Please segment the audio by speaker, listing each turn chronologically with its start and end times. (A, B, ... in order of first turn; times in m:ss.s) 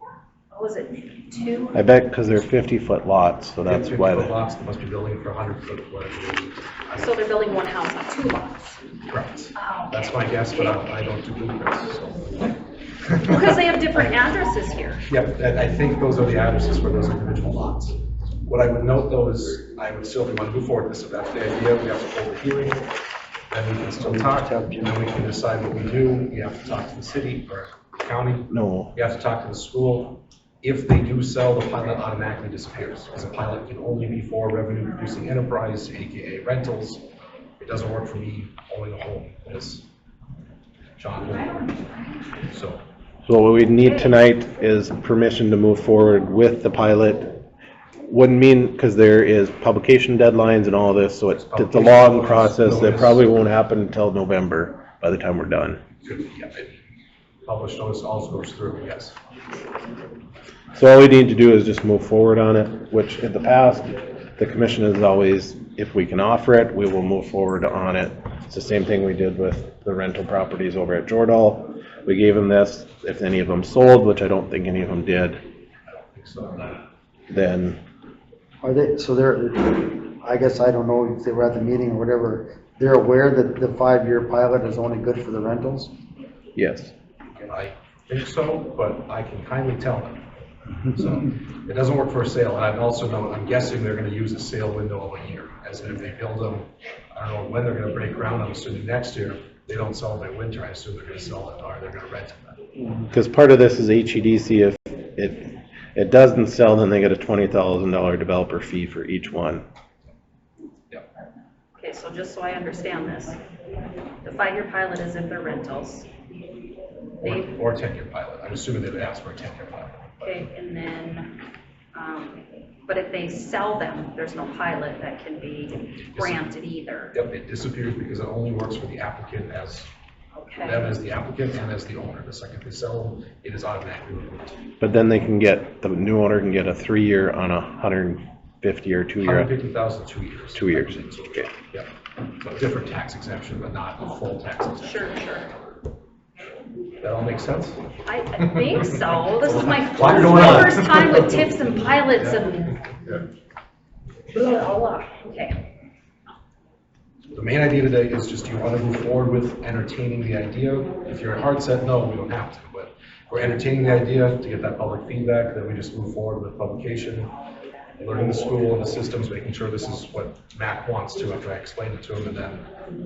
0:00.5-0:01.8 A
0:01.7-0:04.3 B
0:03.6-0:07.1 C
0:07.0-0:08.8 A
0:09.1-0:12.6 C
0:09.6-0:10.9 A
0:13.1-0:13.5 C
0:13.2-0:15.0 A
0:15.1-0:22.8 C
0:23.5-0:37.0 C
0:24.0-0:25.0 D
0:28.5-0:28.9 B
0:37.6-0:39.8 C
0:41.0-0:41.7 C
0:42.5-0:42.8 C
0:43.2-0:47.4 B
0:43.8-0:44.1 A
0:48.1-0:55.8 B
0:51.3-0:53.2 C
0:56.0-0:56.7 C
0:57.4-0:59.1 C
1:00.7-1:15.4 B
1:15.9-1:16.8 C
1:17.3-1:17.8 B
1:18.6-1:25.9 D
1:26.5-1:26.9 B
1:27.4-1:30.2 C
1:30.9-1:42.6 C
1:43.1-1:49.6 B
1:51.8-1:53.4 A
1:54.2-1:56.1 A
1:57.2-2:00.2 C
2:00.2-2:01.3 A
2:01.9-2:07.2 A
2:06.1-2:06.4 C
2:07.1-2:09.9 C
2:10.3-2:10.9 A
2:10.6-2:14.6 C
2:14.8-2:19.5 B
2:19.2-2:21.9 C
2:20.5-2:21.5 B
2:22.4-2:25.0 C
2:24.8-2:25.5 A
2:27.0-2:27.8 C
2:28.0-2:32.8 A
2:29.4-2:31.5 C
2:34.3-2:35.6 A
2:37.3-2:47.3 C
2:48.0-2:52.6 C